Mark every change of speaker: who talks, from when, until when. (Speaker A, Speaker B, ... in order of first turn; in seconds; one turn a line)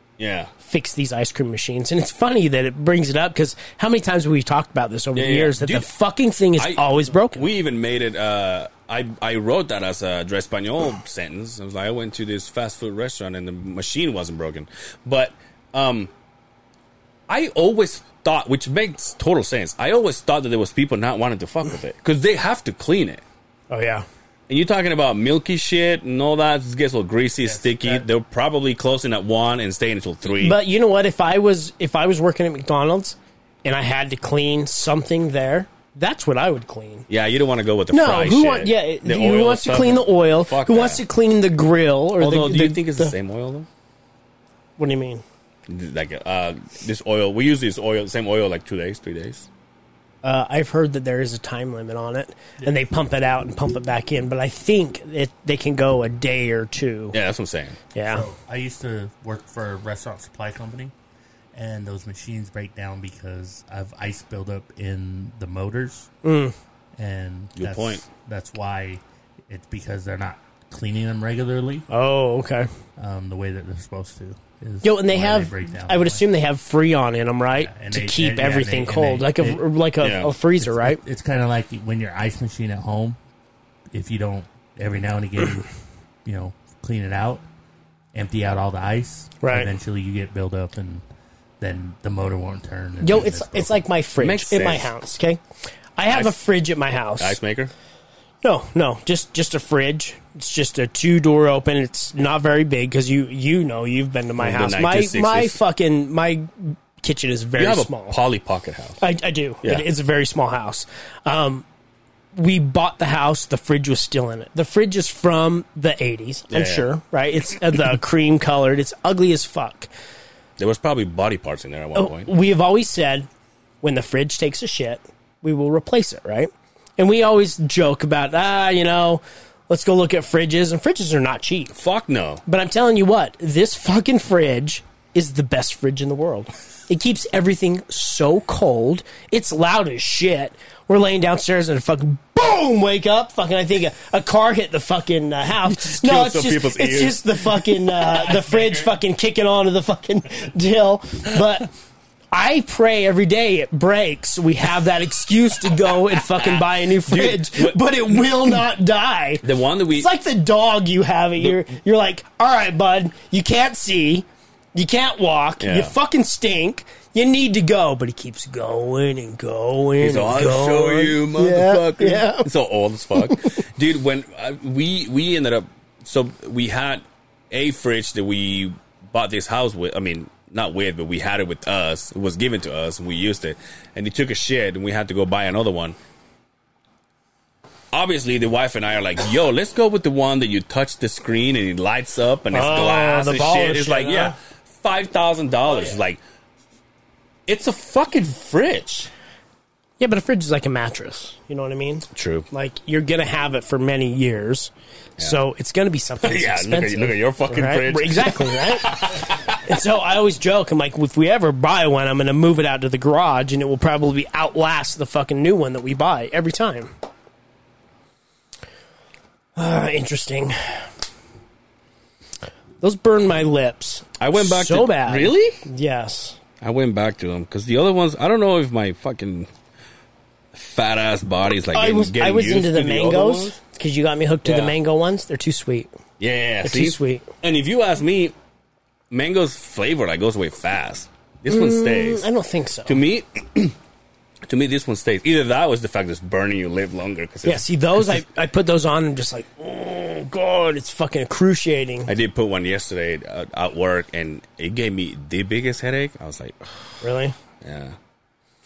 Speaker A: 0.2-0.5
Speaker B: 0.6-7.5
Speaker A: 5.1-5.9
Speaker A: 6.6-16.1
Speaker A: 17.3-23.2
Speaker B: 23.7-24.1
Speaker A: 24.5-30.6
Speaker C: 27.4-28.0
Speaker B: 30.4-37.1
Speaker A: 37.1-41.0
Speaker B: 37.9-43.1
Speaker A: 42.2-43.7
Speaker B: 44.8-45.2
Speaker A: 45.7-49.5
Speaker B: 50.2-57.2
Speaker A: 57.1-57.8
Speaker B: 57.9-58.2
Speaker C: 58.1-60.9
Speaker C: 61.5-66.1
Speaker B: 66.2-66.5
Speaker C: 67.0-71.9
Speaker A: 67.5-68.0
Speaker B: 71.9-72.7
Speaker C: 73.0-76.2
Speaker B: 74.8-81.0
Speaker C: 77.6-79.6
Speaker A: 80.0-80.3
Speaker C: 80.6-83.2
Speaker C: 83.9-85.7
Speaker C: 86.2-87.4
Speaker C: 88.1-91.0
Speaker B: 89.4-89.7
Speaker C: 91.6-93.8
Speaker B: 93.0-95.4
Speaker A: 94.2-94.9
Speaker B: 96.0-97.4
Speaker A: 96.1-96.4
Speaker A: 97.2-97.7
Speaker B: 98.4-108.2
Speaker A: 104.4-105.6
Speaker A: 107.5-109.0
Speaker B: 109.0-111.6
Speaker B: 112.3-119.9
Speaker A: 116.5-116.9
Speaker A: 120.6-122.3
Speaker B: 121.9-123.3
Speaker B: 123.8-131.7
Speaker A: 131.7-132.4
Speaker B: 132.4-151.7
Speaker A: 145.6-147.4
Speaker C: 148.0-148.9
Speaker B: 152.3-172.5
Speaker A: 156.3-157.8
Speaker A: 159.4-160.1
Speaker A: 165.6-165.9
Speaker A: 170.0-186.0
Speaker A: 187.9-196.2
Speaker B: 192.5-194.3
Speaker A: 197.5-199.1
Speaker B: 200.0-216.9
Speaker A: 202.1-202.4
Speaker A: 206.2-209.6
Speaker B: 219.6-220.8
Speaker B: 222.8-226.4
Speaker A: 224.2-225.6
Speaker A: 226.6-229.5
Speaker A: 230.5-233.6
Speaker B: 231.7-235.9
Speaker A: 234.4-234.8
Speaker A: 236.2-238.3
Speaker B: 236.6-237.3
Speaker A: 239.1-242.3
Speaker B: 241.5-243.0
Speaker A: 242.8-243.8
Speaker A: 244.4-248.1
Speaker B: 247.4-252.1
Speaker A: 252.1-256.9
Speaker B: 257.0-257.3
Speaker A: 257.6-257.9